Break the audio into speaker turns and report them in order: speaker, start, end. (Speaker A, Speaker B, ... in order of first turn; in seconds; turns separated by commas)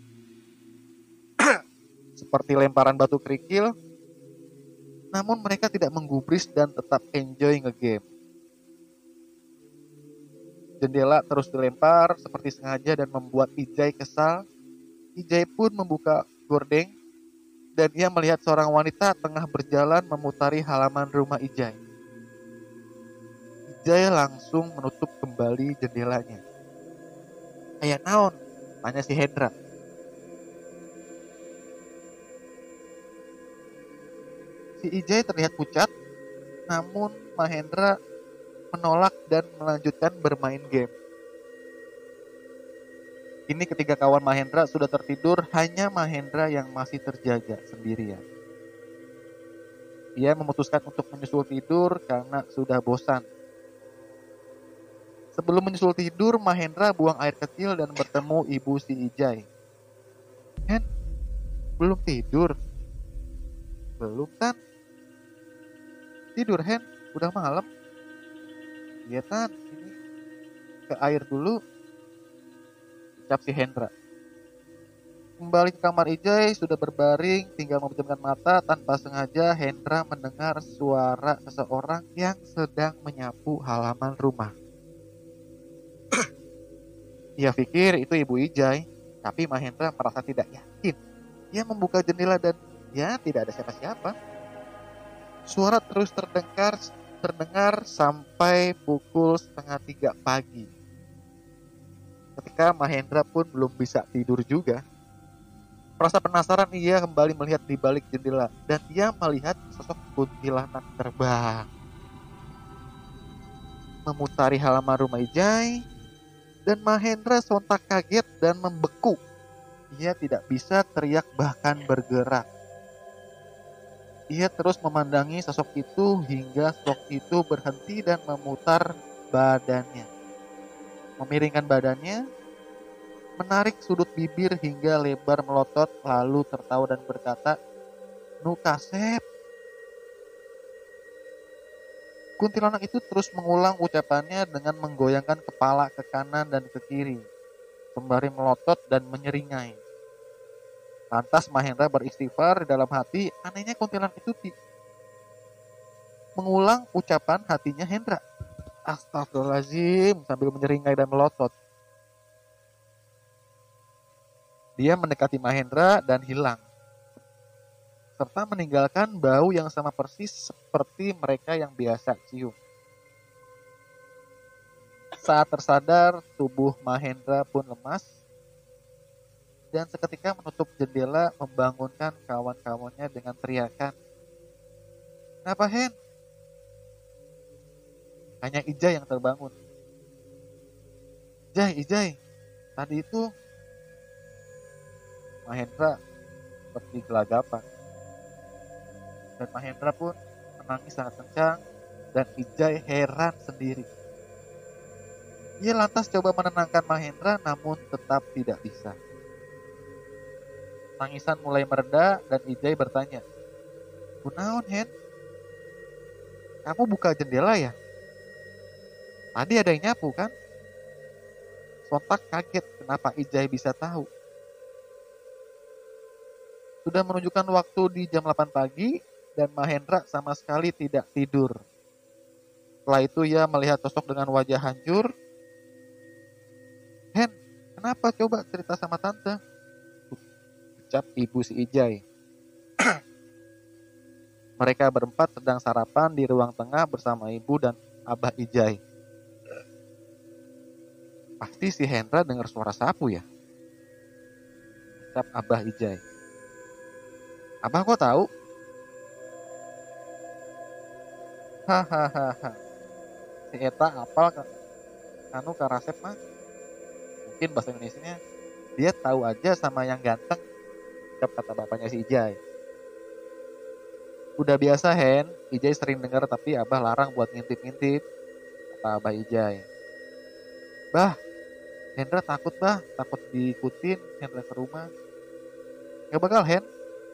Speaker A: 2.2-3.7, Speaker A: 5.1-8.0, Speaker A: 10.8-14.4, Speaker A: 15.2-16.9, Speaker A: 17.8-21.8, Speaker A: 23.7-26.4, Speaker A: 27.8-28.3, Speaker A: 28.8-29.5, Speaker A: 34.8-35.9, Speaker A: 36.7-37.9, Speaker A: 38.7-40.9, Speaker A: 43.5-48.2, Speaker A: 50.2-53.2, Speaker A: 55.4-59.4, Speaker A: 61.8-62.5, Speaker A: 64.0-64.6, Speaker A: 66.4-67.7, Speaker A: 69.1-69.9, Speaker A: 70.9-71.5, Speaker A: 73.2-73.9, Speaker A: 75.4-84.5, Speaker A: 87.4-91.0, Speaker A: 91.5-94.1, Speaker A: 95.5-100.7, Speaker A: 102.4-104.8, Speaker A: 106.0-111.7, Speaker A: 114.1-115.8, Speaker A: 116.7-119.2, Speaker A: 119.9-122.4, Speaker A: 124.3-128.8, Speaker A: 129.3-130.1, Speaker A: 131.2-132.2, Speaker A: 133.4-137.6, Speaker A: 138.4-139.2, Speaker A: 142.4-147.2, Speaker A: 147.9-149.8, Speaker A: 151.1-154.5, Speaker A: 156.4-158.2, Speaker A: 158.9-161.5, Speaker A: 164.8-166.6, Speaker A: 168.2-172.5, Speaker A: 175.2-178.1, Speaker A: 179.7-183.9, Speaker A: 185.5-185.9, Speaker A: 188.4-189.5, Speaker A: 191.6-192.1, Speaker A: 192.8-193.2, Speaker A: 195.5-195.9, Speaker A: 196.7-197.6, Speaker A: 199.4-201.6, Speaker A: 202.1-203.9, Speaker A: 205.6-208.9, Speaker A: 211.0-213.2, Speaker A: 214.2-214.9, Speaker A: 216.6-217.7, Speaker A: 219.4-220.3, Speaker A: 221.9-224.1, Speaker A: 226.9-231.5, Speaker A: 232.9-235.1, Speaker A: 237.2-239.4, Speaker A: 240.8-242.0, Speaker A: 244.6-248.8, Speaker A: 251.4-253.2, Speaker A: 255.1-256.0, Speaker A: 257.6-258.2, Speaker A: 261.7-262.6, Speaker A: 263.5-264.4, Speaker A: 265.4-266.1, Speaker A: 267.2-268.1, Speaker A: 268.8-270.4, Speaker A: 271.2-272.4, Speaker A: 274.4-278.0, Speaker A: 278.7-279.6, Speaker A: 282.0-284.9, Speaker A: 286.1-286.6